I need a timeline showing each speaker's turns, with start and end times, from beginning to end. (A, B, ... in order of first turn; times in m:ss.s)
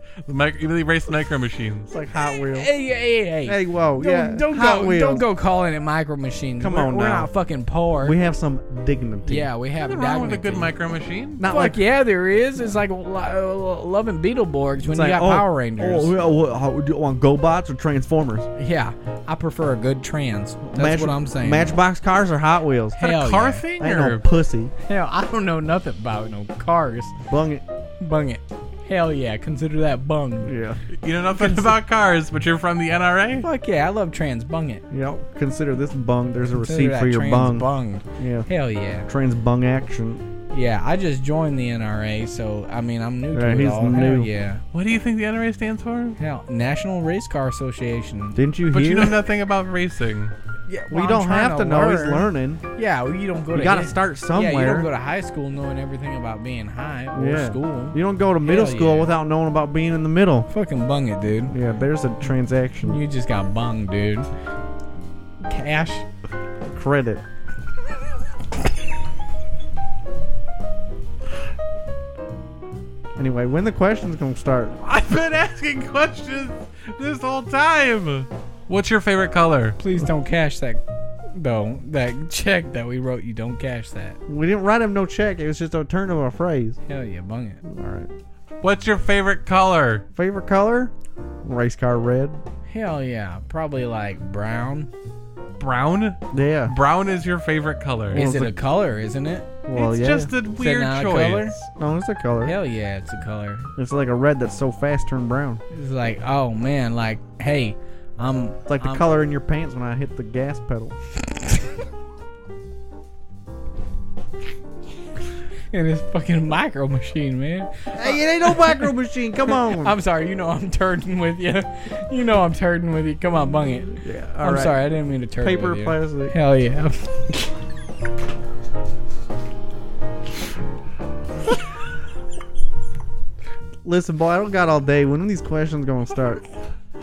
0:00.2-0:01.9 A
0:01.9-0:02.7 B
0:02.4-0:08.2 C
0:03.4-0:05.2 B
0:06.6-0:07.3 B
0:08.0-0:09.5 B
0:09.2-0:10.7 C
0:09.8-0:11.4 A
0:11.4-0:11.8 B
0:11.4-0:16.1 C
0:14.8-0:18.5 B
0:18.6-0:21.7 C
0:20.7-0:23.0 B
0:23.0-0:23.6 C
0:23.0-0:24.2 A
0:23.8-0:24.7 B
0:24.8-0:27.1 C
0:27.3-0:27.6 B
0:28.0-0:30.5 C
0:30.4-0:30.8 B
0:31.0-0:33.5 A
0:31.3-0:31.7 C
0:33.4-0:34.8 C
0:34.9-0:38.5 B
0:36.6-0:39.1 C
0:39.1-0:40.2 B
0:40.5-0:44.6 C
0:43.3-0:44.3 B
0:44.7-0:46.2 A
0:46.2-0:48.4 C
0:48.3-0:49.2 B
0:48.7-0:50.3 A
0:50.7-0:59.1 C
0:50.9-0:52.6 B
0:53.5-0:54.9 B
0:57.1-1:00.5 B
1:00.5-1:01.5 C
1:01.5-1:03.0 B
1:02.8-1:04.3 C
1:05.4-1:06.0 C
1:06.7-1:07.2 B
1:13.2-1:14.8 B
1:14.8-1:19.8 A
1:19.8-1:20.8 C
1:21.3-1:24.2 C
1:24.3-1:26.8 B
1:26.9-1:27.6 C
1:27.6-1:28.1 B
1:28.6-1:30.0 A
1:30.1-1:30.9 B
1:31.4-1:32.4 B
1:32.7-1:34.9 C
1:35.6-1:38.2 A
1:36.3-1:36.7 B
1:38.1-1:38.6 B
1:38.1-1:39.5 C
1:39.6-1:40.3 B
1:39.7-1:41.7 A
1:40.5-1:41.6 C
1:41.8-1:42.6 B
1:42.4-1:43.7 C
1:43.8-1:45.6 B
1:45.7-1:49.0 C
1:48.7-1:51.0 B
1:55.7-1:57.9 C
1:57.9-2:00.0 B
1:58.4-1:58.8 C
1:59.5-2:07.1 C
2:04.0-2:04.8 B
2:05.4-2:06.3 B
2:13.8-2:16.4 B